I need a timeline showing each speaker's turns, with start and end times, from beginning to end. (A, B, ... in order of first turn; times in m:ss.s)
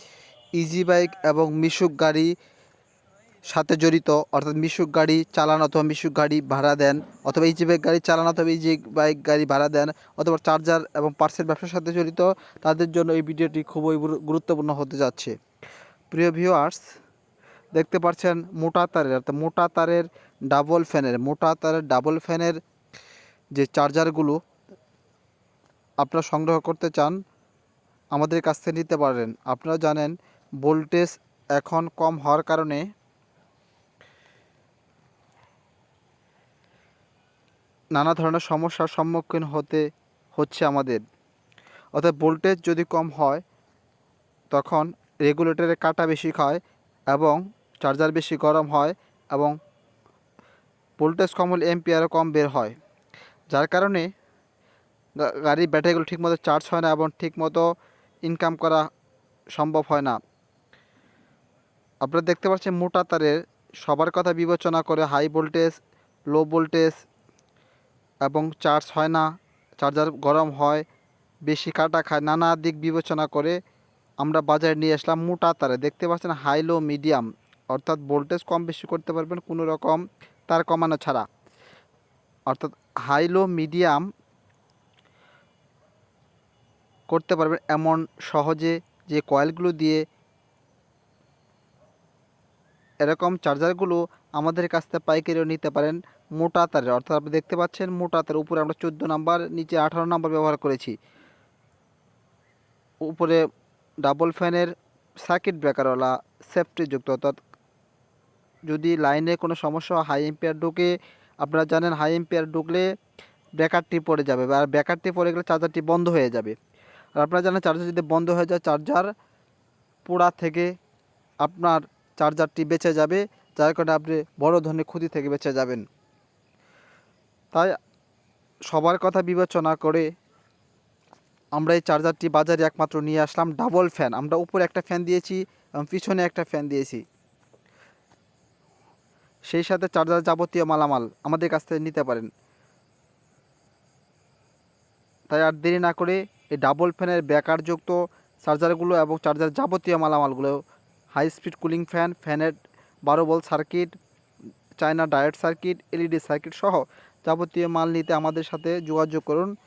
0:00.6-0:02.3 A
0:03.5-0:15.3 A
0:16.1-0:16.8 A
0:17.7-0:22.6 A
0:23.6-0:24.4 A
0:26.0-0:27.2 A
0:28.1-0:32.9 A
0:37.9-0:41.0 A
0:41.9-0:43.4 A
0:44.5-0:49.6 A
0:51.0-0:52.8 A
0:53.5-0:54.1 A
0:55.2-0:57.6 A
0:58.2-0:58.8 A
0:59.5-1:00.2 A
1:02.0-1:05.7 A
1:06.3-1:07.0 A
1:08.2-1:09.2 A
1:09.8-1:10.8 A
1:11.5-1:13.6 A
1:14.2-1:21.3 A
1:22.5-1:24.1 A
1:27.1-1:30.0 A
1:33.0-1:40.9 A
1:43.0-1:43.4 A
1:44.0-1:44.7 A
1:45.2-1:47.4 A
1:48.7-1:52.9 A
1:53.6-1:56.6 A
1:57.2-1:59.1 A
2:00.0-2:00.7 A
2:01.4-2:05.8 A
2:08.7-2:10.1 A
2:11.6-2:17.0 A
2:19.5-2:22.3 A
2:25.3-2:30.6 A
2:31.2-2:32.6 A
2:33.1-2:33.9 A
2:34.8-2:39.5 A